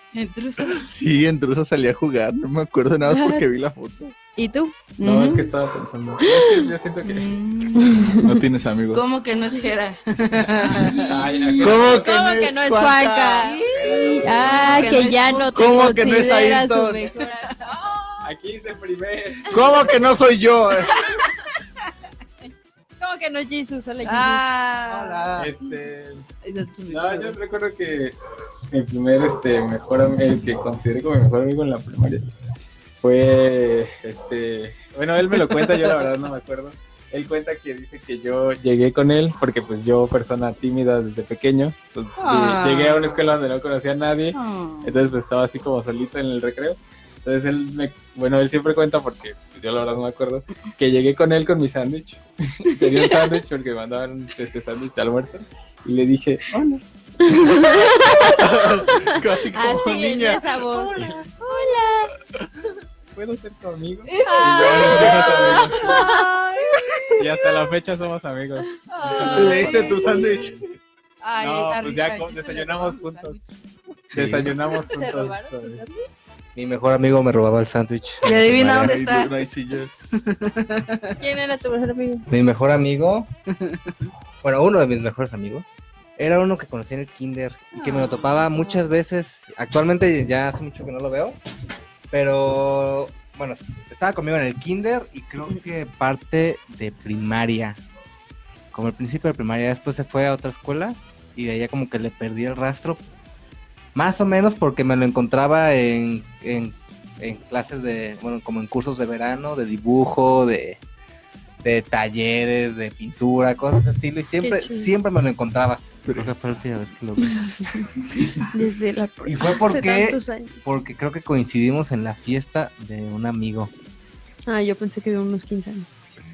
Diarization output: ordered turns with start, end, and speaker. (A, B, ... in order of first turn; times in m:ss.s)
0:00.1-0:00.9 A
0:00.7-0:04.2 B
0:03.1-0:03.4 C
0:04.4-0:04.8 C
0:05.0-0:05.5 A
0:05.0-0:07.4 D
0:06.2-0:06.7 C
0:07.0-0:08.2 A
0:07.8-0:08.4 C
0:08.2-0:09.0 B
0:08.9-0:11.7 A
0:10.7-0:18.3 C
0:11.0-0:12.1 D
0:11.6-0:17.1 B
0:13.4-0:16.2 A
0:14.3-0:15.0 D
0:17.2-0:17.6 A
0:18.2-0:19.6 D
0:19.5-0:21.2 B
0:19.6-0:19.9 C
0:20.9-0:21.3 A
0:23.0-0:24.4 C
0:24.0-0:25.3 A
0:24.9-0:25.5 E
0:25.4-0:26.2 D
0:26.4-0:27.4 A
0:26.9-0:28.2 D
0:28.7-0:32.3 D
0:33.0-0:56.7 D
0:42.2-0:43.2 A
0:44.3-0:45.1 A
0:52.7-0:53.2 A
0:57.2-1:02.1 C
0:58.4-1:01.2 B
1:01.0-1:01.3 D
1:03.2-1:06.1 D
1:04.1-1:07.2 A
1:04.2-1:06.3 C
1:04.9-1:05.3 B
1:07.2-1:10.6 D
1:08.9-1:10.3 A
1:09.1-1:10.2 C
1:09.3-1:10.7 B
1:11.2-1:13.6 A
1:11.4-1:13.4 D
1:14.1-1:15.9 D
1:14.1-1:14.5 E
1:14.8-1:16.1 C
1:16.6-1:19.0 E
1:18.2-1:19.4 A
1:18.6-1:20.1 B
1:20.1-1:21.2 A
1:21.2-1:22.3 C
1:22.3-1:23.3 E
1:23.5-1:23.9 A
1:24.4-1:31.4 E
1:27.7-1:28.5 A
1:32.1-1:37.8 E
1:38.7-1:43.0 E
1:44.0-1:50.8 E
1:51.6-1:57.9 E
1:54.4-1:54.9 C
1:56.1-1:56.3 B
1:58.5-2:00.6 C
1:59.2-2:03.7 E
2:04.5-2:05.9 C